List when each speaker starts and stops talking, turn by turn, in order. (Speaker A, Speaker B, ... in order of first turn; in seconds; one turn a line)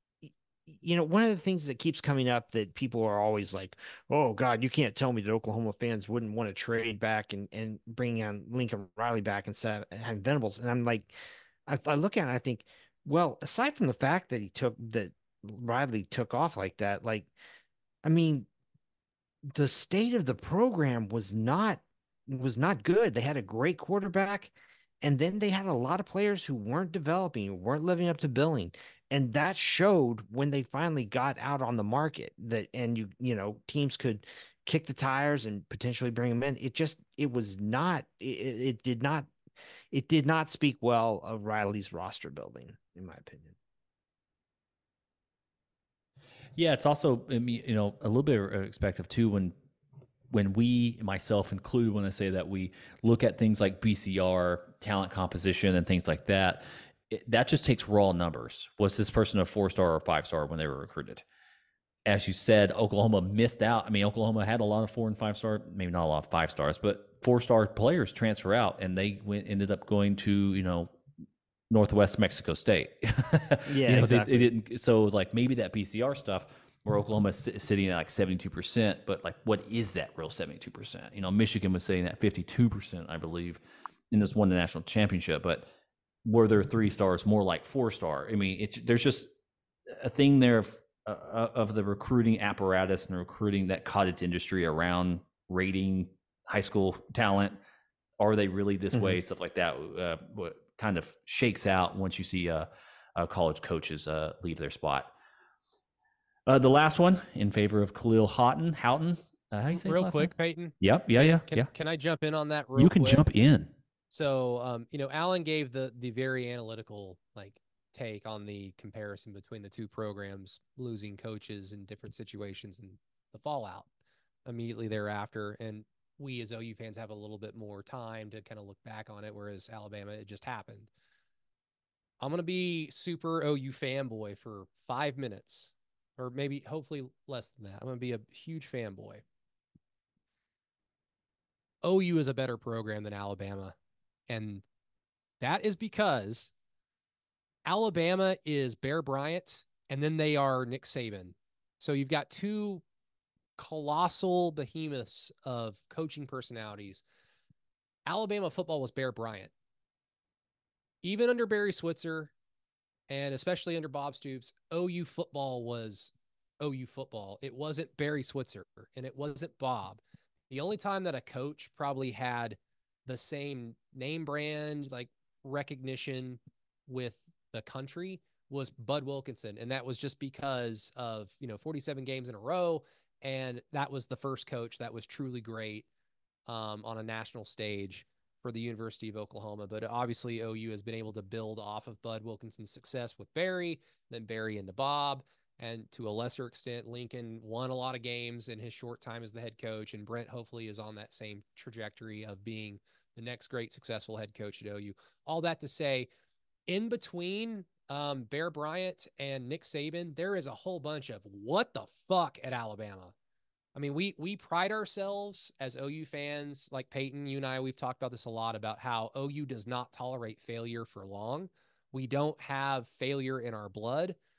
Speaker A: 0.2-11.2
Speaker A: 11.7-17.3
Speaker A: 18.0-18.5
Speaker A: 19.5-39.3
Speaker A: 39.9-43.5
Speaker B: 46.6-49.5
Speaker B: 50.3-61.2
Speaker B: 62.0-70.9
Speaker B: 71.7-85.7
Speaker A: 73.7-74.5
Speaker B: 86.2-89.3
Speaker B: 89.9-97.6
Speaker B: 98.2-105.1
Speaker A: 98.9-99.2
Speaker B: 106.5-111.7
Speaker C: 109.7-113.2
Speaker B: 112.8-113.7
Speaker C: 114.1-123.9
Speaker C: 124.5-130.9
Speaker C: 132.2-139.2
Speaker C: 141.8-143.8
Speaker C: 144.3-144.6
Speaker C: 145.4-146.5
Speaker C: 147.7-152.8
Speaker C: 153.6-157.0
Speaker C: 158.1-159.5
Speaker C: 161.0-162.3
Speaker C: 163.1-185.9
Speaker C: 186.5-206.1
Speaker C: 206.7-213.1
Speaker C: 213.8-224.2